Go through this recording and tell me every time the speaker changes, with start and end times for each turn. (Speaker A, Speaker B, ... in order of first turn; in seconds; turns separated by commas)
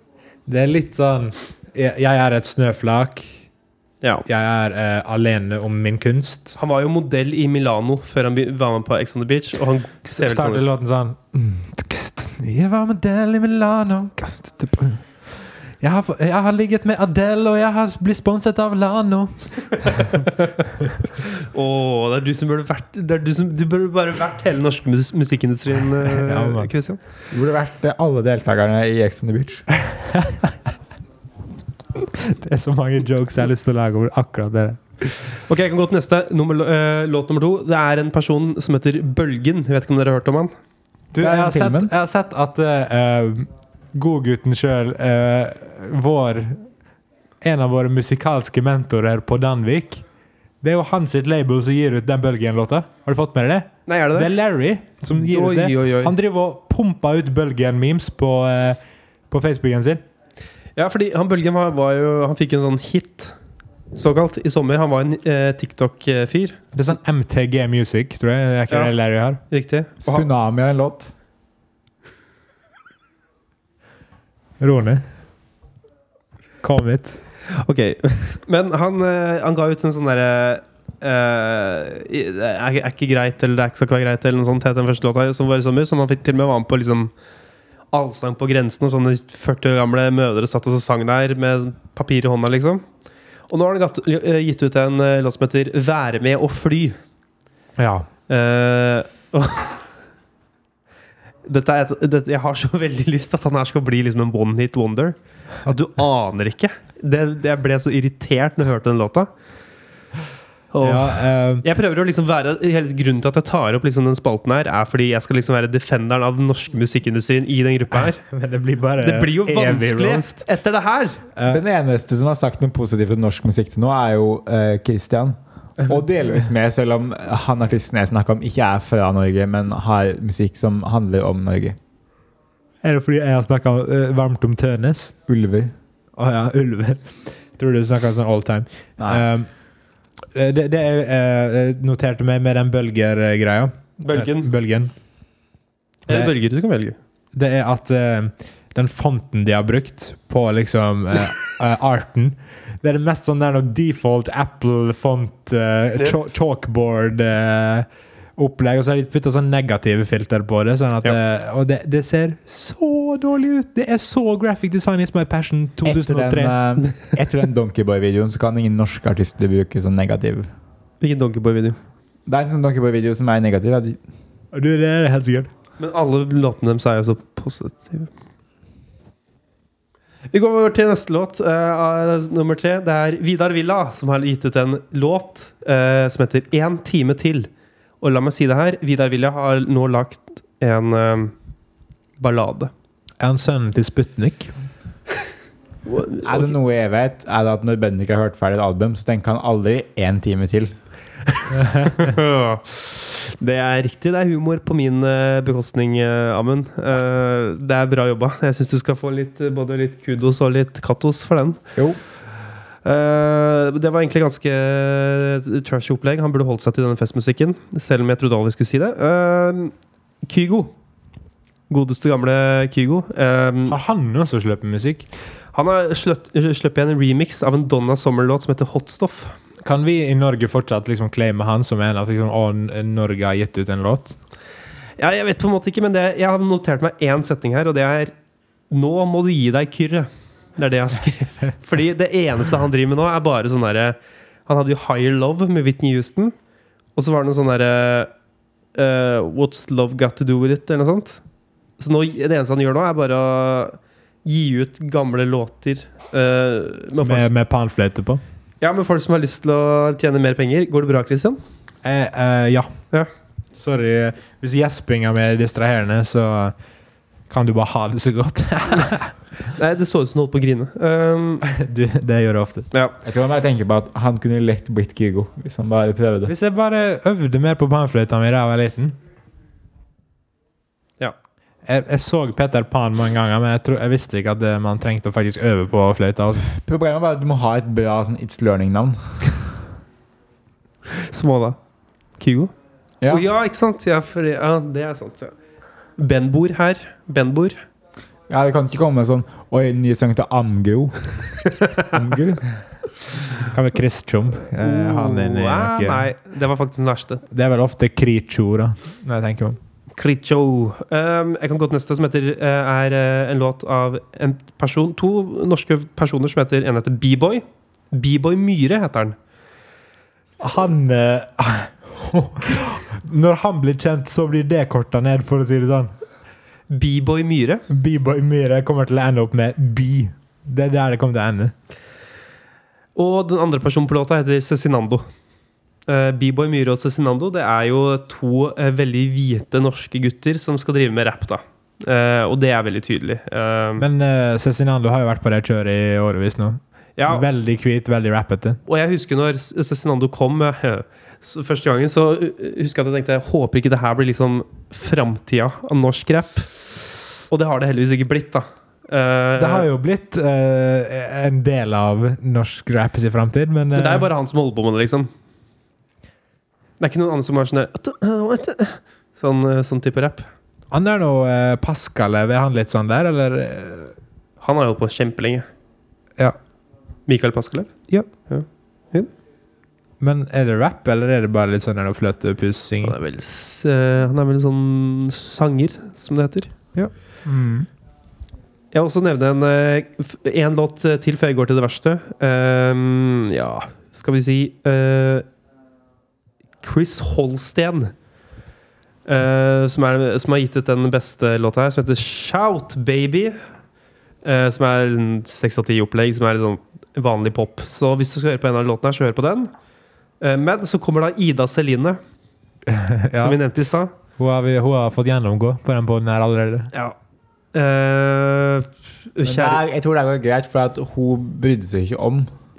Speaker A: 0.5-3.4, Speaker A: 4.3-6.6, Speaker B: 6.6-10.7, Speaker A: 10.2-20.3, Speaker B: 20.1-20.5, Speaker B: 21.2-27.0, Speaker A: 26.2-26.7, Speaker C: 27.3-29.7, Speaker A: 29.8-30.5, Speaker A: 32.1-35.4, Speaker B: 35.5-40.5, Speaker A: 41.1-46.7, Speaker C: 41.2-41.9, Speaker A: 47.4-50.0, Speaker A: 50.6-58.8, Speaker B: 53.9-54.3, Speaker B: 55.1-56.1, Speaker A: 59.3-60.0, Speaker B: 60.8-63.4, Speaker B: 63.9-66.7, Speaker A: 66.7-69.4, Speaker B: 69.5-70.3, Speaker C: 70.0-71.1, Speaker A: 74.6-75.0, Speaker A: 76.6-77.2, Speaker B: 77.5-87.1, Speaker B: 87.9-92.9, Speaker B: 93.5-97.0, Speaker A: 97.8-98.1, Speaker B: 98.3-99.8, Speaker B: 101.5-109.3, Speaker B: 110.7-118.2, Speaker A: 110.8-111.7, Speaker A: 118.2-120.5, Speaker B: 119.0-121.2, Speaker A: 121.4-121.6, Speaker C: 121.5-131.8, Speaker A: 132.8-135.1, Speaker C: 135.3-135.7, Speaker A: 136.2-139.5, Speaker C: 139.0-139.2, Speaker A: 140.3-144.9, Speaker B: 144.0-144.5, Speaker B: 146.1-147.0, Speaker A: 147.3-166.6, Speaker C: 165.8-170.5, Speaker B: 171.0-171.8, Speaker C: 172.3-174.0, Speaker A: 174.5-175.5, Speaker B: 175.8-178.1, Speaker B: 180.3-187.5, Speaker B: 188.0-191.3, Speaker B: 192.2-192.7, Speaker A: 193.2-194.5, Speaker B: 195.9-196.6, Speaker C: 196.2-200.7, Speaker A: 201.5-202.1, Speaker B: 201.7-211.6, Speaker B: 212.8-220.7, Speaker B: 221.7-223.8, Speaker A: 223.7-225.1, Speaker B: 225.5-229.3, Speaker A: 229.7-234.2, Speaker B: 235.0-238.1, Speaker B: 238.7-246.3, Speaker B: 247.0-248.1, Speaker B: 248.8-251.2, Speaker B: 251.8-257.3, Speaker A: 257.0-258.2, Speaker B: 258.6-261.4, Speaker A: 261.8-262.7, Speaker A: 263.6-266.5, Speaker A: 267.3-269.1, Speaker B: 269.5-271.4, Speaker A: 271.4-272.7, Speaker C: 273.0-276.3, Speaker A: 276.3-279.0, Speaker A: 281.7-286.5, Speaker C: 286.5-289.0, Speaker B: 290.9-291.6, Speaker B: 292.2-292.5, Speaker C: 293.0-293.3, Speaker B: 293.1-295.3, Speaker B: 296.0-297.6, Speaker C: 298.3-301.0, Speaker B: 301.4-301.9, Speaker C: 301.9-302.5, Speaker A: 303.4-306.1, Speaker B: 304.6-307.2, Speaker A: 307.3-309.6, Speaker B: 310.0-319.2, Speaker A: 320.4-325.9, Speaker B: 326.7-327.7, Speaker A: 327.7-331.5, Speaker B: 333.0-335.0, Speaker B: 335.9-343.9, Speaker A: 343.8-348.6, Speaker B: 347.0-347.3, Speaker B: 348.7-356.5, Speaker B: 357.3-359.7, Speaker A: 359.4-364.1, Speaker B: 363.8-365.1, Speaker B: 366.8-370.3, Speaker A: 370.7-373.9, Speaker B: 374.4-375.5, Speaker B: 377.1-379.1, Speaker A: 380.0-383.0, Speaker B: 382.8-386.5, Speaker A: 386.7-387.7, Speaker B: 388.7-395.3, Speaker B: 396.6-397.9, Speaker B: 399.1-403.4, Speaker B: 404.2-409.5, Speaker B: 410.2-412.0, Speaker A: 412.7-413.4, Speaker B: 413.1-413.9, Speaker A: 414.2-416.7, Speaker B: 417.5-419.6, Speaker C: 419.2-422.3